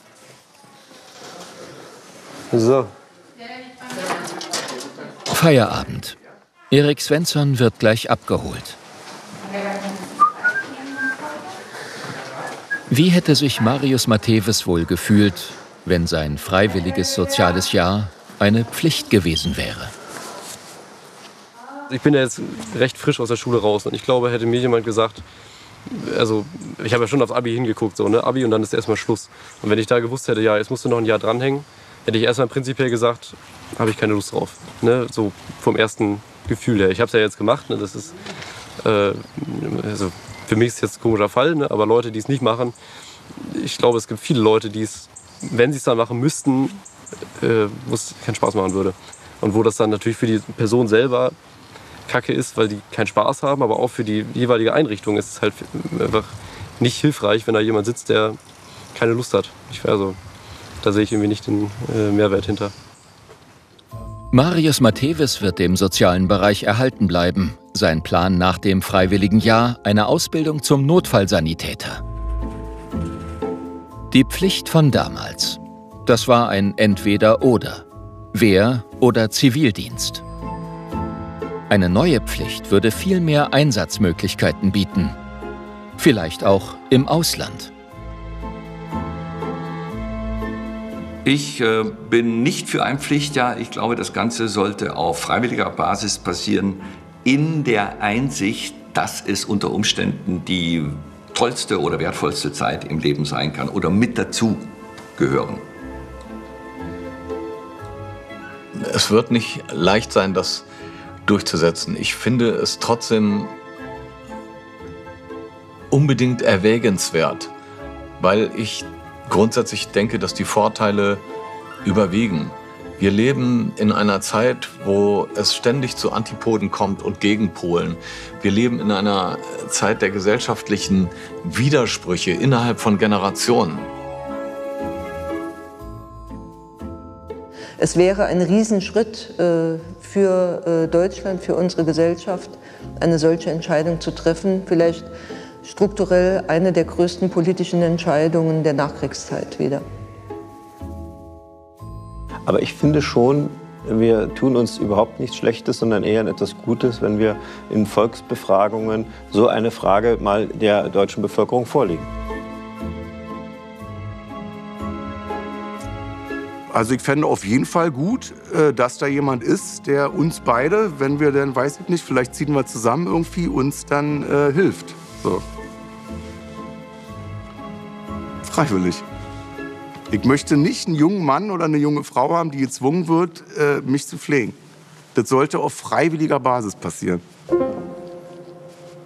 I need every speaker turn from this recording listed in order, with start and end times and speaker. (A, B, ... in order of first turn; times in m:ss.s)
0:02.5-0:02.9 A
0:05.3-0:06.2 B
0:06.7-0:08.8 B
0:12.9-0:19.9 B
0:21.9-0:25.2 A
0:25.9-0:38.2 A
0:38.8-0:42.7 A
0:43.3-0:46.8 A
0:47.4-0:51.4 A
0:52.1-0:58.4 A
0:58.9-1:00.2 A
1:00.8-1:02.7 A
1:04.3-1:12.0 B
1:14.1-1:20.2 B
1:21.7-1:25.1 B
1:26.0-1:27.7 B
1:31.2-1:45.6 C
1:48.7-1:50.6 D
1:51.2-1:53.5 D
1:55.9-1:57.5 D
1:58.2-2:01.2 D
2:01.8-2:13.9 D
2:17.8-2:25.1 E
2:25.6-2:29.8 E
2:32.4-2:42.1 F
2:46.7-2:55.4 G
2:58.5-2:59.0 G
3:00.1-3:04.6 G
3:05.1-3:07.2 G